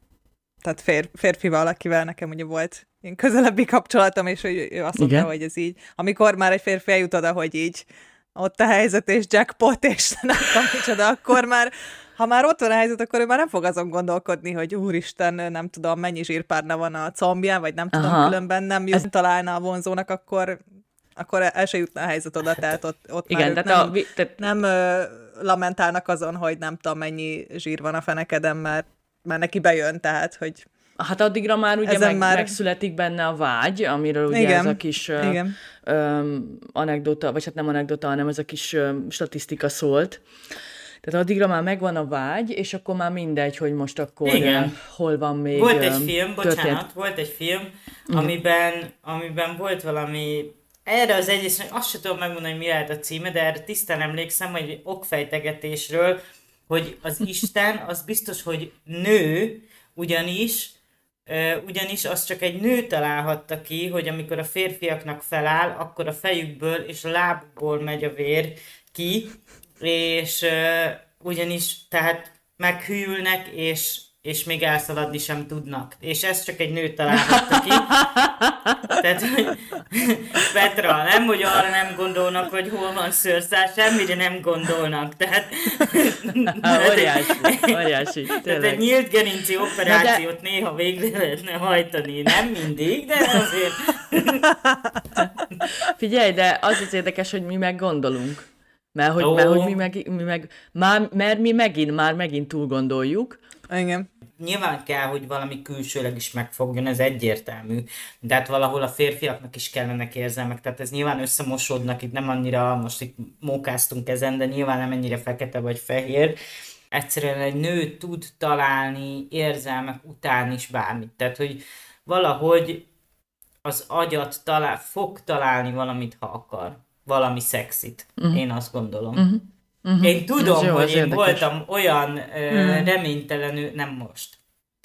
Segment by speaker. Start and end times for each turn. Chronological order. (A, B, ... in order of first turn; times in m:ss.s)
0:00.6-0:20.6 A
0:05.0-0:05.3 B
0:17.9-0:18.3 B
0:21.2-0:30.6 A
0:23.3-0:24.4 B
0:31.0-0:40.2 B
0:31.8-0:32.6 A
0:34.3-0:35.5 A
0:41.0-0:46.8 B
0:44.2-0:44.8 C
0:45.5-1:00.8 C
1:01.3-1:18.1 C
1:17.2-1:19.0 B
1:19.0-1:27.8 C
1:26.5-1:28.8 B
1:28.3-1:34.5 C
1:29.8-1:30.2 B
1:35.1-1:43.4 B
1:39.2-1:39.8 C
1:43.7-1:44.1 A
1:44.4-1:56.4 C
1:56.9-2:02.8 C
2:03.6-2:09.2 C
2:09.1-2:11.4 B
2:10.0-2:14.4 C
2:12.5-2:12.9 A